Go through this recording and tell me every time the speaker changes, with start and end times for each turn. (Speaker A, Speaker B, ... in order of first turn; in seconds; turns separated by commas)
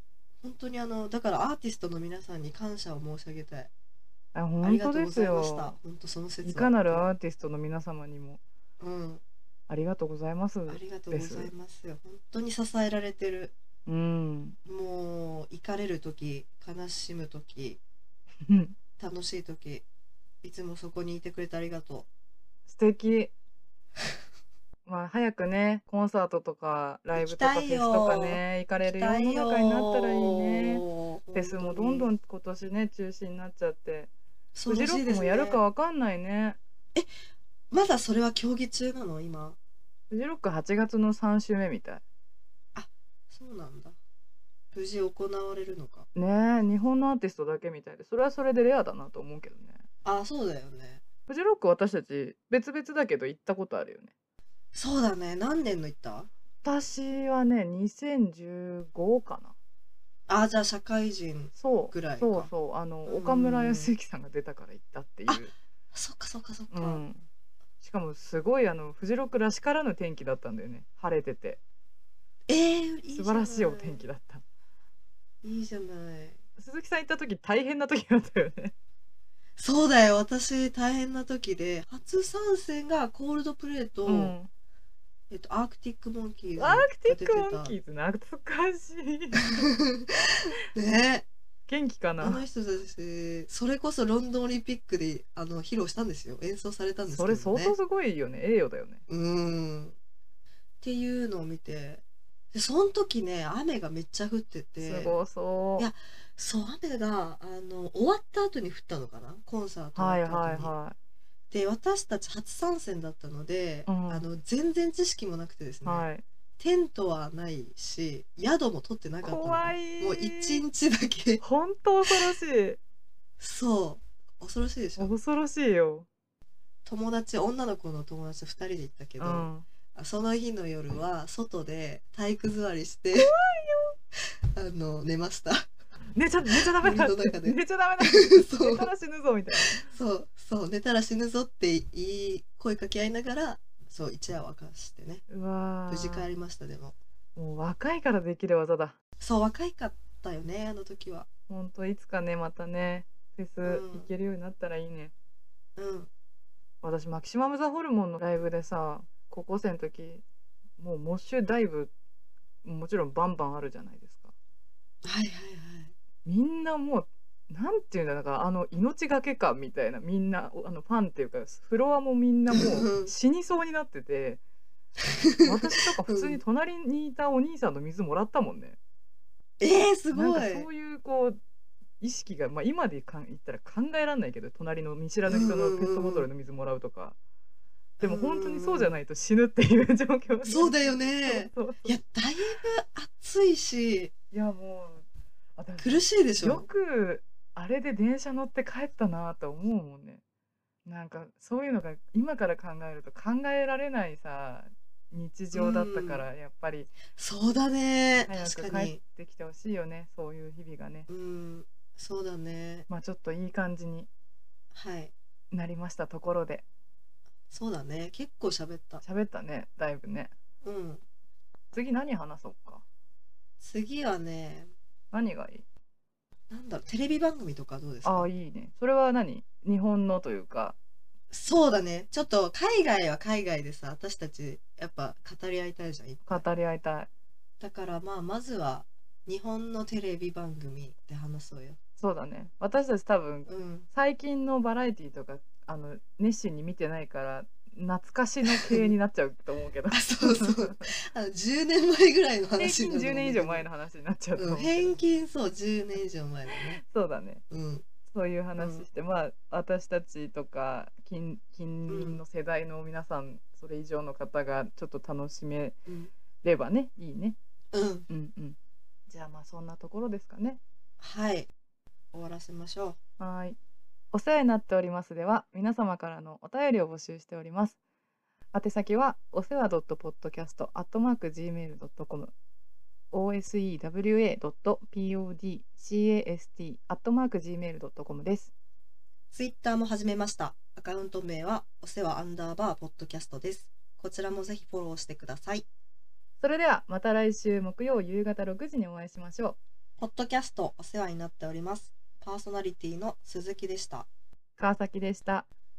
Speaker A: 0.4-3.7, Speaker B: 4.3-5.8, Speaker A: 4.6-7.1, Speaker B: 6.4-8.4, Speaker A: 8.8-9.2, Speaker B: 9.7-11.5, Speaker A: 10.7-13.5, Speaker B: 13.8-14.6, Speaker A: 14.6-17.8, Speaker B: 18.5-18.8, Speaker A: 19.0-19.8, Speaker A: 20.4-22.1, Speaker B: 22.7-23.3, Speaker B: 24.9-34.1, Speaker A: 27.1-32.1, Speaker A: 34.5-35.6, Speaker B: 34.6-36.6, Speaker A: 37.7-39.6, Speaker B: 40.1-42.0, Speaker A: 42.7-44.0, Speaker A: 44.7-46.0, Speaker B: 46.1-49.8, Speaker A: 50.0-51.0, Speaker B: 51.3-54.1, Speaker A: 54.7-56.3, Speaker B: 56.6-59.5, Speaker A: 60.3-62.5, Speaker B: 61.5-65.5, Speaker A: 63.1-63.9, Speaker A: 65.3-67.0, Speaker B: 66.7-67.2, Speaker B: 67.8-71.6, Speaker A: 72.5-74.0, Speaker B: 73.1-74.4, Speaker A: 75.4-76.4, Speaker B: 76.6-78.7, Speaker A: 79.6-84.3, Speaker B: 84.0-84.5, Speaker A: 85.3-87.8, Speaker B: 86.6-89.7, Speaker A: 89.4-91.3, Speaker B: 91.7-92.5, Speaker A: 92.2-97.8, Speaker B: 97.1-99.0, Speaker A: 99.1-99.9, Speaker A: 100.8-105.1, Speaker B: 104.8-105.9, Speaker A: 105.8-110.7, Speaker B: 109.9-110.9, Speaker A: 111.5-121.4, Speaker B: 113.9-114.3, Speaker B: 115.8-116.2, Speaker B: 119.2-120.6, Speaker B: 121.4-122.8, Speaker A: 123.4-125.1, Speaker B: 125.0-126.1, Speaker A: 126.8-133.3, Speaker B: 129.2-129.7, Speaker B: 133.2-133.9, Speaker A: 134.5-135.7, Speaker B: 136.1-139.9, Speaker A: 136.5-138.9, Speaker A: 139.6-145.2, Speaker B: 145.3-146.3, Speaker A: 145.9-146.9, Speaker B: 147.3-148.9, Speaker A: 149.2-151.3, Speaker B: 151.5-155.1, Speaker A: 153.6-154.1, Speaker A: 155.8-156.1, Speaker B: 156.8-160.2, Speaker B: 160.8-161.9, Speaker B: 162.6-164.3, Speaker A: 165.0-165.9, Speaker B: 166.2-174.4, Speaker A: 172.5-173.1, Speaker A: 175.1-176.4, Speaker B: 175.4-178.8, Speaker A: 179.6-180.7, Speaker B: 180.1-181.4, Speaker B: 182.0-187.2, Speaker A: 185.3-186.3, Speaker A: 188.0-189.0, Speaker B: 188.0-192.0, Speaker A: 190.4-194.1, Speaker B: 194.3-195.0, Speaker B: 195.6-200.2, Speaker A: 195.8-196.7, Speaker B: 200.8-206.9, Speaker A: 205.5-206.2, Speaker A: 207.2-209.0, Speaker B: 208.3-211.1, Speaker A: 211.1-212.9, Speaker B: 212.9-214.1, Speaker A: 214.7-215.1, Speaker B: 215.5-216.6, Speaker A: 217.5-219.0, Speaker B: 219.0-220.3, Speaker A: 220.6-221.0, Speaker B: 221.7-222.8, Speaker A: 223.6-224.7, Speaker B: 225.1-225.6, Speaker A: 226.5-228.3, Speaker B: 228.0-230.8, Speaker A: 231.3-236.4, Speaker B: 236.2-237.1, Speaker A: 237.6-241.8, Speaker B: 242.0-250.9, Speaker A: 243.5-243.9, Speaker A: 248.4-248.9, Speaker A: 249.9-253.7, Speaker B: 252.6-255.0, Speaker A: 254.4-256.8, Speaker B: 256.8-257.4, Speaker A: 257.5-257.8, Speaker B: 258.1-265.8, Speaker A: 258.6-258.9, Speaker A: 261.9-262.2, Speaker A: 265.9-266.1, Speaker B: 266.4-267.4, Speaker A: 267.7-268.1, Speaker B: 268.1-268.6, Speaker B: 269.1-270.6, Speaker A: 271.0-271.5, Speaker A: 272.1-273.0, Speaker B: 273.2-273.6, Speaker B: 274.1-277.8, Speaker B: 278.5-282.3, Speaker B: 283.1-288.5, Speaker A: 289.3-295.6, Speaker B: 296.4-299.6, Speaker A: 300.0-304.1, Speaker B: 304.6-305.5